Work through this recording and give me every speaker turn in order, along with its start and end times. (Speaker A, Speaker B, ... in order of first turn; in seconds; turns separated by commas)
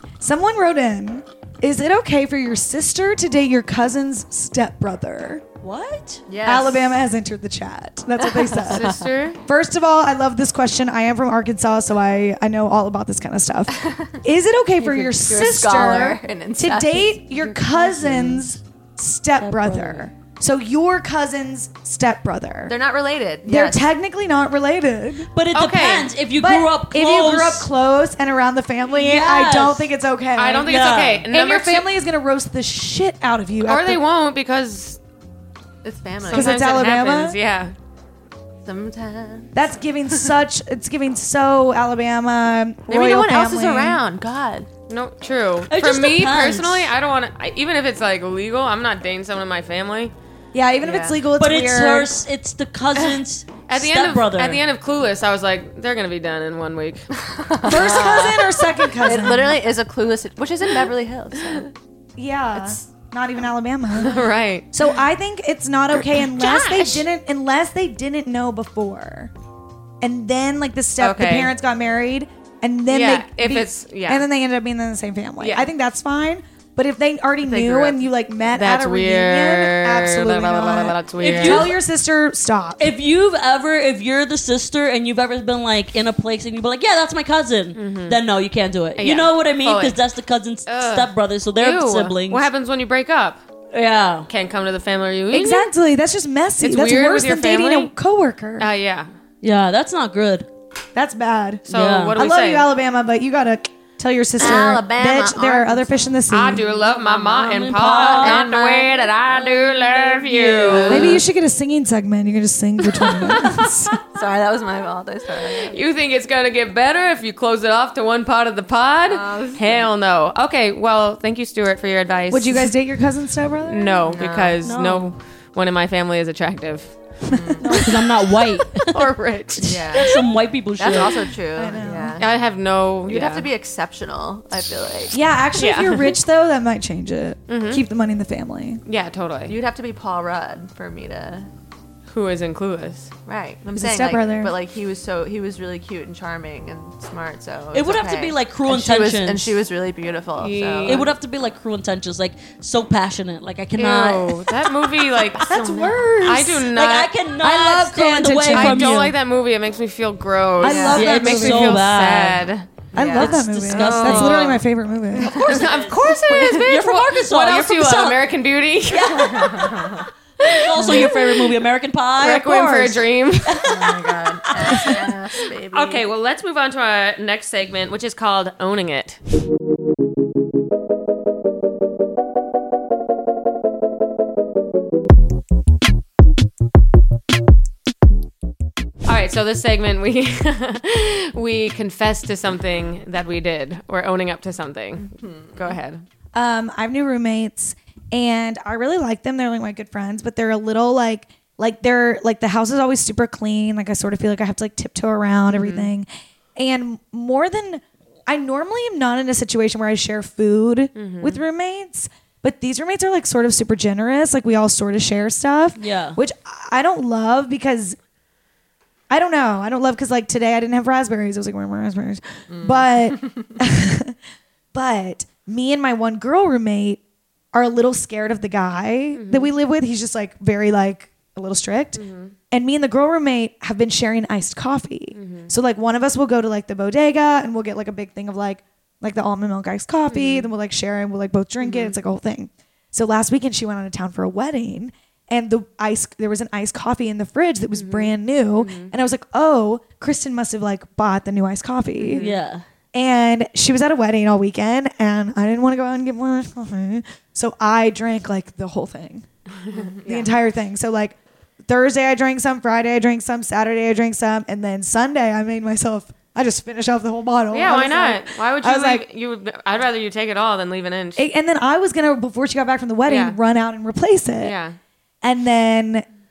Speaker A: 0.2-5.4, Speaker B: 5.6-6.2, Speaker C: 6.3-7.0, Speaker A: 6.4-22.7, Speaker C: 8.4-9.1, Speaker D: 8.6-9.4, Speaker C: 13.8-14.1, Speaker C: 14.8-18.4, Speaker B: 19.4-20.1, Speaker C: 22.7-23.9, Speaker A: 23.4-25.3, Speaker B: 25.3-27.7, Speaker D: 25.5-26.1, Speaker A: 26.4-34.0, Speaker B: 28.9-29.9, Speaker D: 30.4-31.9, Speaker B: 30.6-31.2, Speaker D: 33.6-35.0, Speaker C: 35.8-36.7, Speaker D: 36.3-37.7, Speaker A: 36.3-37.4, Speaker C: 38.6-40.3, Speaker A: 39.5-44.0, Speaker C: 42.9-44.7, Speaker D: 44.9-50.1, Speaker B: 45.7-46.9, Speaker A: 50.5-52.1, Speaker D: 50.8-51.1, Speaker B: 51.4-54.6, Speaker D: 53.7-57.0, Speaker C: 57.4-61.7, Speaker A: 57.6-59.6, Speaker A: 62.2-69.3, Speaker D: 64.0-64.7, Speaker D: 66.1-67.0, Speaker A: 70.0-82.9, Speaker D: 71.0-71.5, Speaker D: 72.9-74.3, Speaker D: 75.4-75.7, Speaker C: 77.5-78.0, Speaker D: 78.5-81.7, Speaker B: 81.2-81.8, Speaker B: 82.8-92.5, Speaker D: 87.8-88.2, Speaker D: 89.0-90.0, Speaker D: 90.7-93.4, Speaker B: 93.7-94.3, Speaker D: 94.3-95.7, Speaker A: 95.3-98.7, Speaker D: 96.6-97.9, Speaker D: 98.6-99.1, Speaker B: 99.4-100.5, Speaker A: 101.0-106.6, Speaker D: 101.7-102.7, Speaker B: 101.7-102.2, Speaker C: 104.4-105.9, Speaker D: 106.3-111.2, Speaker B: 106.9-108.5, Speaker C: 107.8-109.2, Speaker B: 109.8-111.0, Speaker C: 110.4-111.2, Speaker A: 110.9-114.0, Speaker C: 114.1-115.8, Speaker D: 115.7-122.7, Speaker C: 119.1-119.9, Speaker A: 122.3-124.1, Speaker D: 123.7-126.9, Speaker C: 124.1-124.6, Speaker B: 124.6-125.1, Speaker C: 127.3-127.7, Speaker A: 127.3-128.0, Speaker B: 127.7-131.3, Speaker D: 128.8-130.0, Speaker C: 129.7-130.2, Speaker C: 130.8-132.4, Speaker A: 131.6-132.2, Speaker D: 132.2-133.5, Speaker C: 133.1-135.2, Speaker A: 135.1-138.8, Speaker D: 135.6-136.1, Speaker D: 137.5-137.8, Speaker D: 138.9-139.6, Speaker C: 139.5-141.5, Speaker D: 142.1-143.1, Speaker C: 143.3-151.1, Speaker A: 143.8-144.5, Speaker B: 147.7-149.5, Speaker D: 150.4-151.1, Speaker B: 150.8-154.5, Speaker D: 153.8-157.1, Speaker A: 155.5-156.7, Speaker C: 155.5-155.9, Speaker B: 156.7-159.2, Speaker A: 157.4-158.9, Speaker D: 158.5-162.7, Speaker A: 160.6-161.8, Speaker C: 160.6-161.1, Speaker B: 160.9-162.5, Speaker C: 162.9-163.4, Speaker A: 162.9-165.4, Speaker B: 163.1-164.5, Speaker D: 163.7-164.6, Speaker D: 165.2-171.5, Speaker C: 165.2-166.5, Speaker B: 165.3-168.2, Speaker B: 168.9-169.8, Speaker C: 169.1-170.1, Speaker B: 170.5-174.9, Speaker A: 170.8-171.1, Speaker D: 172.2-173.7, Speaker C: 173.7-176.1, Speaker D: 175.7-179.2, Speaker D: 189.1-196.1, Speaker C: 195.1-195.7, Speaker A: 196.3-218.0, Speaker D: 205.5-205.9, Speaker D: 210.9-211.4, Speaker B: 215.8-216.2, Speaker A: 219.1-224.2, Speaker C: 222.5-223.5, Speaker A: 224.7-227.0, Speaker A: 227.5-252.2, Speaker D: 229.1-229.5, Speaker D: 231.9-232.3, Speaker D: 235.2-235.5, Speaker D: 240.1-240.5, Speaker D: 241.6-242.0, Speaker D: 247.7-248.9, Speaker D: 252.0-252.4, Speaker B: 252.2-252.6, Speaker A: 252.9-259.3, Speaker D: 259.6-260.3, Speaker A: 260.0-269.1, Speaker D: 267.5-271.2, Speaker A: 271.2-274.6, Speaker D: 273.1-273.4, Speaker D: 274.4-274.8, Speaker A: 275.2-276.1